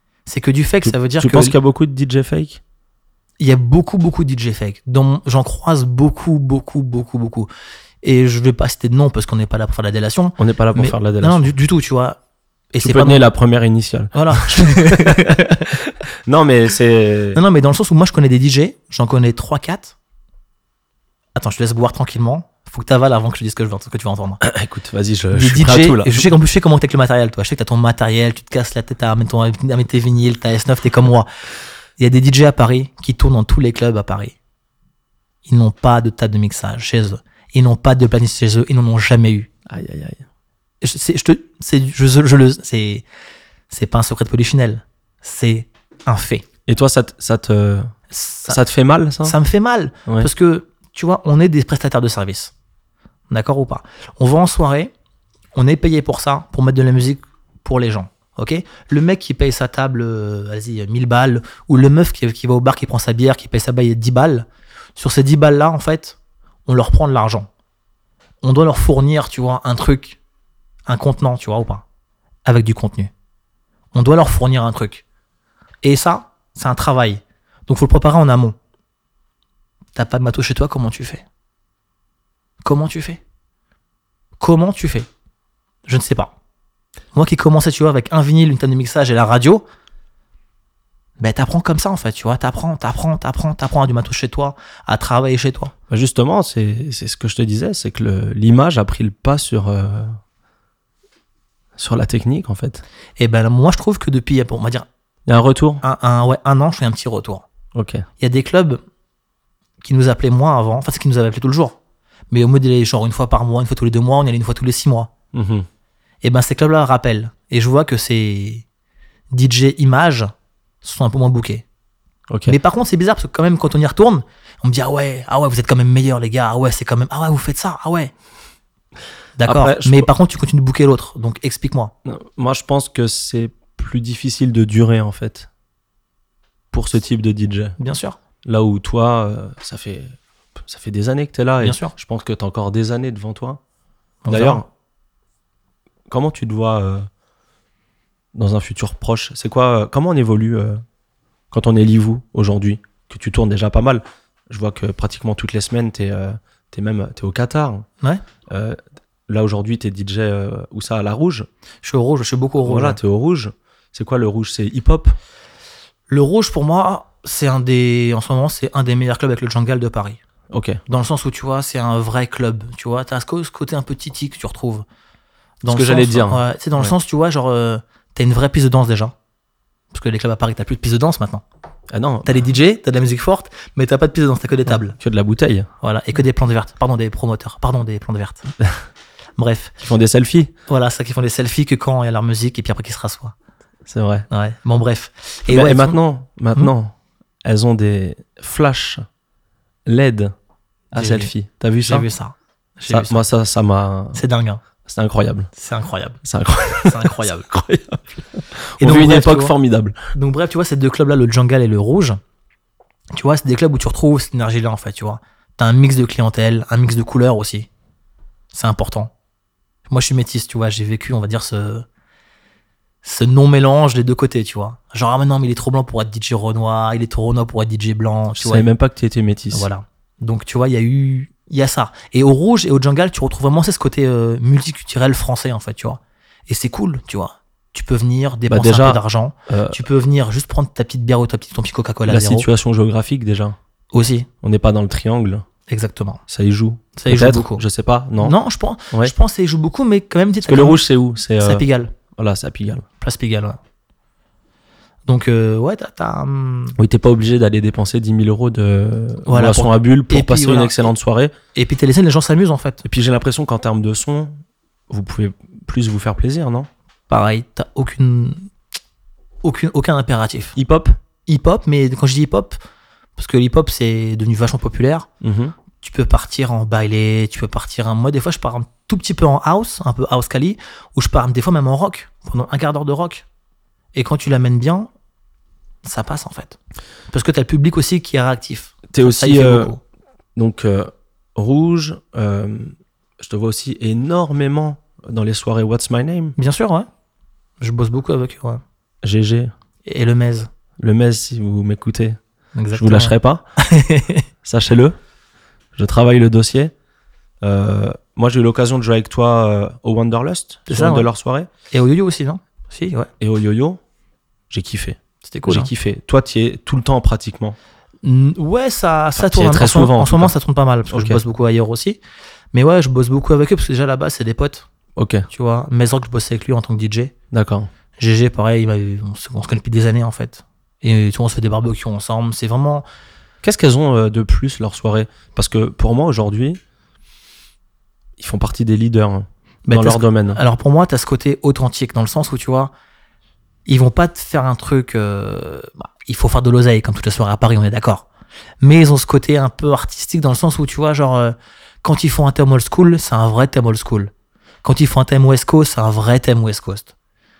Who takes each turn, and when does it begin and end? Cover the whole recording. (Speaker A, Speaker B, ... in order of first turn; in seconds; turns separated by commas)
Speaker A: 0.2-1.5, Speaker B: 0.8-2.6, Speaker A: 3.4-7.5, Speaker A: 8.0-12.2, Speaker B: 10.4-11.5, Speaker A: 12.7-13.3, Speaker B: 12.8-17.4, Speaker A: 14.1-15.7, Speaker A: 17.3-19.9, Speaker A: 21.3-24.4, Speaker B: 24.4-26.3, Speaker A: 25.3-31.3, Speaker A: 32.0-34.3, Speaker A: 35.5-39.5, Speaker B: 39.7-40.2, Speaker A: 40.8-43.0, Speaker A: 43.7-46.4, Speaker B: 46.7-47.9, Speaker A: 48.1-48.6, Speaker B: 48.5-49.4, Speaker A: 49.2-52.5, Speaker A: 53.3-54.9, Speaker A: 55.5-67.5, Speaker A: 68.4-70.2, Speaker A: 70.9-71.8, Speaker A: 72.4-73.1, Speaker A: 73.9-75.0, Speaker A: 75.8-78.5, Speaker A: 79.9-81.2, Speaker A: 82.6-83.2, Speaker A: 84.4-85.1, Speaker A: 85.8-86.3, Speaker A: 87.1-89.6, Speaker A: 91.2-95.7, Speaker B: 95.9-100.2, Speaker B: 101.8-102.8, Speaker A: 103.2-104.9, Speaker B: 105.3-105.8, Speaker A: 105.8-107.5, Speaker B: 107.7-108.0, Speaker A: 108.2-108.8, Speaker A: 109.8-111.8, Speaker A: 112.3-115.1, Speaker B: 115.3-115.7, Speaker A: 116.2-118.6, Speaker A: 119.3-120.3, Speaker A: 120.8-121.6, Speaker B: 122.3-122.5, Speaker A: 122.5-128.1, Speaker A: 129.4-131.9, Speaker B: 129.4-130.1, Speaker B: 132.0-135.5, Speaker B: 136.7-137.8, Speaker A: 137.8-138.2, Speaker B: 138.4-143.6, Speaker A: 141.6-141.9, Speaker A: 144.2-144.6, Speaker B: 144.3-144.7, Speaker B: 146.1-147.1, Speaker B: 148.3-150.8, Speaker B: 151.5-157.9, Speaker B: 158.5-161.5, Speaker A: 161.8-163.0, Speaker B: 162.6-165.2, Speaker A: 166.1-170.2, Speaker B: 170.5-170.8, Speaker A: 170.9-174.8, Speaker A: 175.6-179.1, Speaker B: 175.7-176.9, Speaker A: 179.9-181.4, Speaker B: 181.9-182.3, Speaker A: 182.2-185.0, Speaker B: 184.9-185.7, Speaker A: 185.8-188.5, Speaker A: 189.4-189.7, Speaker B: 189.8-190.5, Speaker A: 190.7-193.3, Speaker B: 193.9-194.3, Speaker A: 194.3-196.0, Speaker B: 195.5-199.0, Speaker B: 199.8-200.3, Speaker B: 200.9-202.1, Speaker A: 200.9-203.2, Speaker B: 202.9-204.2, Speaker A: 204.1-204.6, Speaker B: 204.8-205.5, Speaker A: 205.6-206.2, Speaker B: 206.2-210.1, Speaker A: 206.8-207.5, Speaker A: 208.8-209.5, Speaker A: 210.1-212.2, Speaker A: 213.1-217.7, Speaker A: 218.5-219.1, Speaker A: 219.9-221.8, Speaker A: 223.0-228.7, Speaker B: 228.3-229.7, Speaker A: 229.5-242.5, Speaker B: 238.5-239.8, Speaker B: 242.1-243.6, Speaker A: 243.9-244.3, Speaker B: 244.4-245.4, Speaker A: 245.7-246.2, Speaker B: 246.3-248.3, Speaker A: 247.0-247.6, Speaker A: 248.2-250.8, Speaker B: 250.4-252.8, Speaker A: 251.4-251.9, Speaker A: 253.0-253.6, Speaker A: 255.1-256.8, Speaker B: 256.8-261.3, Speaker A: 259.2-260.9, Speaker A: 261.5-262.8, Speaker B: 262.8-264.4, Speaker B: 264.9-266.7, Speaker A: 267.1-268.5, Speaker A: 269.4-270.6, Speaker B: 270.6-271.0, Speaker A: 271.3-272.6, Speaker A: 273.2-275.1, Speaker B: 275.2-275.5, Speaker A: 275.8-283.2, Speaker A: 283.9-284.9, Speaker A: 285.8-286.6, Speaker A: 287.1-289.8, Speaker B: 288.9-289.7, Speaker B: 290.4-296.4, Speaker A: 296.4-296.9, Speaker A: 297.6-298.6, Speaker B: 299.0-299.5, Speaker A: 299.8-300.5, Speaker B: 300.8-302.2, Speaker A: 302.5-304.2, Speaker B: 302.7-303.5, Speaker B: 304.4-304.9, Speaker B: 305.8-306.7, Speaker B: 307.4-311.5, Speaker A: 310.7-311.1, Speaker A: 311.7-313.1, Speaker B: 313.2-313.8, Speaker B: 314.5-317.6, Speaker A: 315.2-315.7, Speaker A: 318.0-322.0, Speaker B: 319.1-320.3, Speaker B: 320.9-321.2, Speaker A: 322.5-324.7, Speaker B: 324.9-325.3, Speaker A: 325.3-327.1, Speaker B: 327.3-327.7, Speaker A: 328.0-332.8, Speaker B: 333.4-336.6, Speaker B: 338.2-340.4, Speaker A: 339.6-342.7, Speaker A: 343.6-348.1, Speaker A: 348.6-354.1, Speaker A: 354.6-356.9